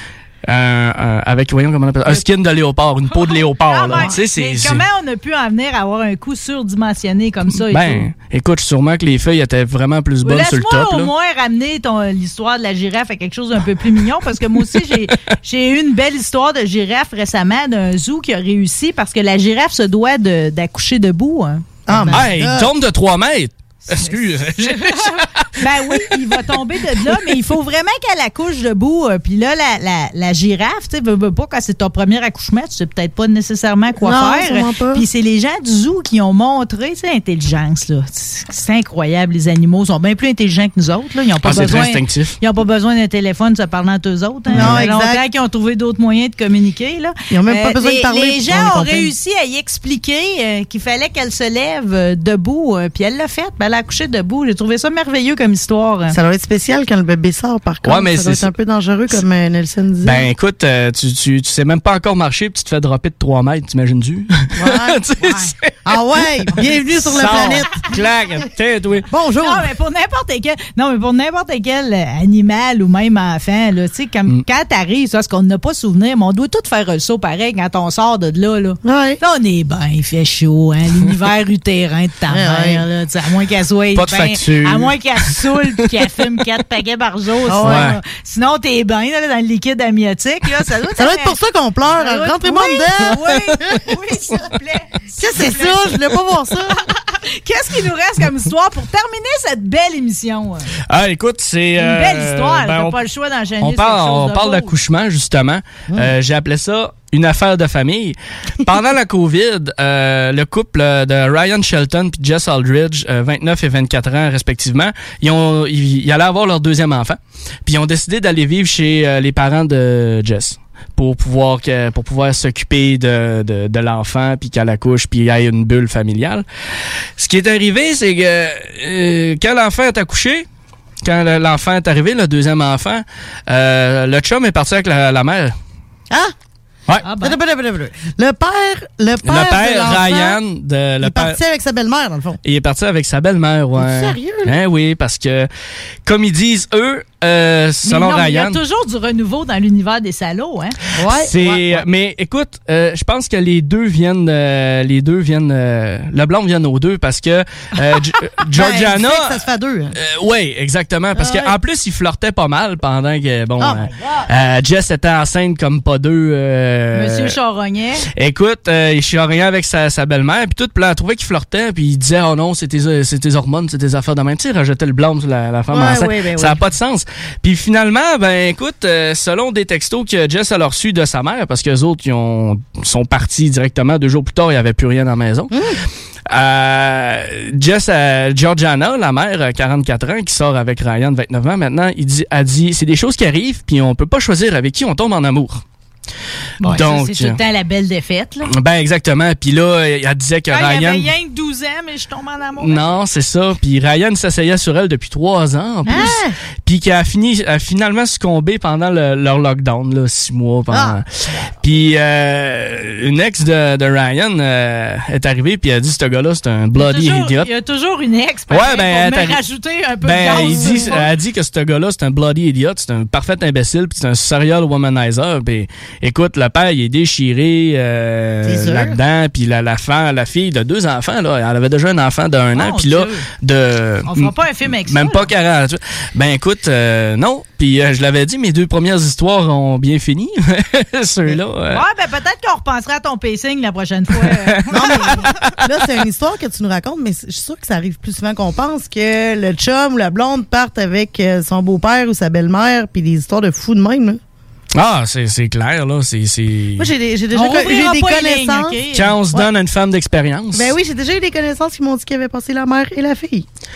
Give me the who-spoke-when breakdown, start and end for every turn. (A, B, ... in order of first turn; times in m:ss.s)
0:00.5-0:04.8 A
0:03.1-0:08.0 B
0:07.7-0:11.1 A
0:10.2-0:22.3 B
0:21.9-0:22.7 C
0:22.0-0:25.6 A
0:23.9-0:56.2 B
0:34.0-0:35.0 C
0:41.4-0:42.4 A
0:44.5-0:45.2 C
0:44.5-0:44.8 A
0:47.3-0:49.1 C
0:56.1-1:00.3 C
0:57.8-0:58.5 A
1:00.0-1:05.8 A
1:04.6-1:04.9 C
1:05.2-1:05.5 B
1:05.8-1:07.9 C
1:06.6-1:08.0 B
1:07.0-1:09.1 A
1:09.1-1:09.7 C
1:09.4-1:31.4 B
1:18.8-1:19.2 C
1:22.3-1:22.8 C
1:23.9-1:25.0 A
1:27.5-1:27.9 C
1:27.6-1:28.0 A
1:31.0-1:33.7 C
1:31.9-1:35.9 B
1:35.2-1:36.7 C
1:36.7-1:40.7 B
1:40.9-1:43.0 A
1:41.8-1:44.7 B
1:43.6-2:06.4 A
2:07.2-2:10.4 A
2:11.0-2:15.5 A
2:17.0-2:17.4 B
2:17.2-2:20.4 C
2:19.2-2:21.4 A
2:21.0-2:22.4 C
2:22.4-2:25.5 A
2:23.7-2:24.6 C
2:26.0-2:28.6 A
2:27.8-2:30.7 B
2:31.0-2:31.8 C
2:31.1-2:47.4 A
2:38.5-2:39.9 C
2:41.2-2:41.4 B
2:41.2-2:41.4 C
2:46.9-2:48.0 B
2:48.2-3:05.6 A
2:55.7-2:56.6 C
3:06.3-3:15.6 A
3:16.6-3:18.5 B
3:16.6-3:17.4 A
3:18.5-3:21.1 A
3:20.5-3:23.0 B
3:22.6-3:31.1 A
3:25.8-3:26.3 C
3:25.9-3:26.2 B
3:30.7-3:31.0 C
3:31.6-3:37.5 A
3:36.7-3:41.1 B
3:38.5-3:39.4 A
3:40.0-3:54.3 A
3:40.3-3:40.9 C
3:48.4-3:49.0 C
3:52.5-3:53.2 B
3:54.1-3:55.3 B
3:54.8-4:01.8 A
4:01.7-4:05.3 B
4:04.3-4:05.3 A
4:04.7-4:14.2 C
4:14.7-4:16.9 A
4:16.8-4:18.8 C
4:17.3-4:19.4 B
4:18.9-4:20.7 A
4:20.5-4:23.5 C